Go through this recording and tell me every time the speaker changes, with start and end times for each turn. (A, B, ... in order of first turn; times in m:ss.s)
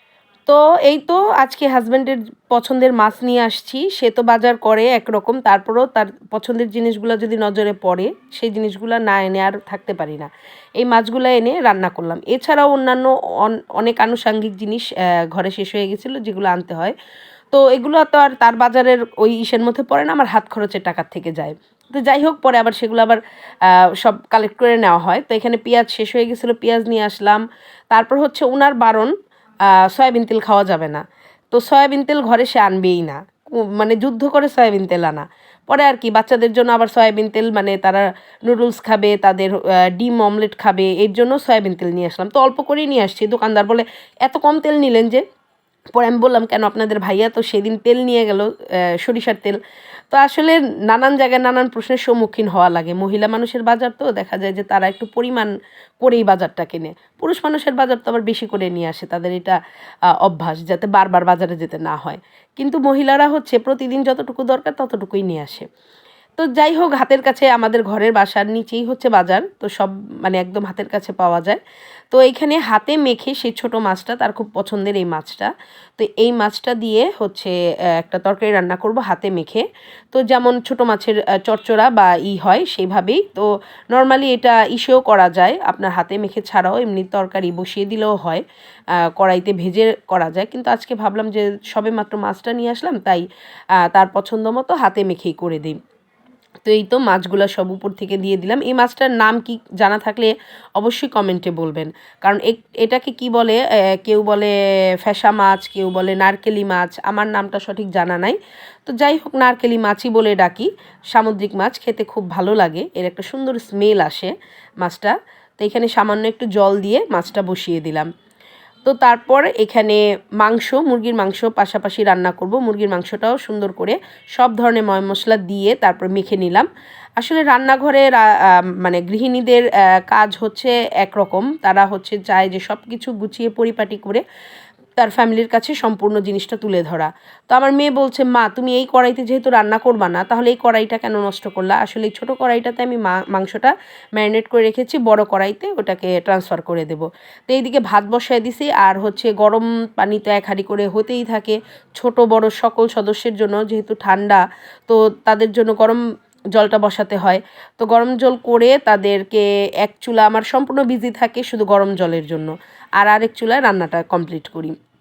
0:00.5-0:16.9 A
0:17.5-0:29.1 A
0:29.8-0:45.2 A
0:46.0-0:49.6 A
0:50.1-0:59.6 A
1:00.2-1:05.7 A
1:06.4-1:11.6 A
1:12.1-1:28.4 A
1:29.2-1:33.2 A
1:33.8-1:35.8 A
1:36.7-1:58.1 A
1:58.8-2:06.7 A
2:07.2-2:14.2 A
2:15.0-2:36.0 A
2:36.5-2:44.8 A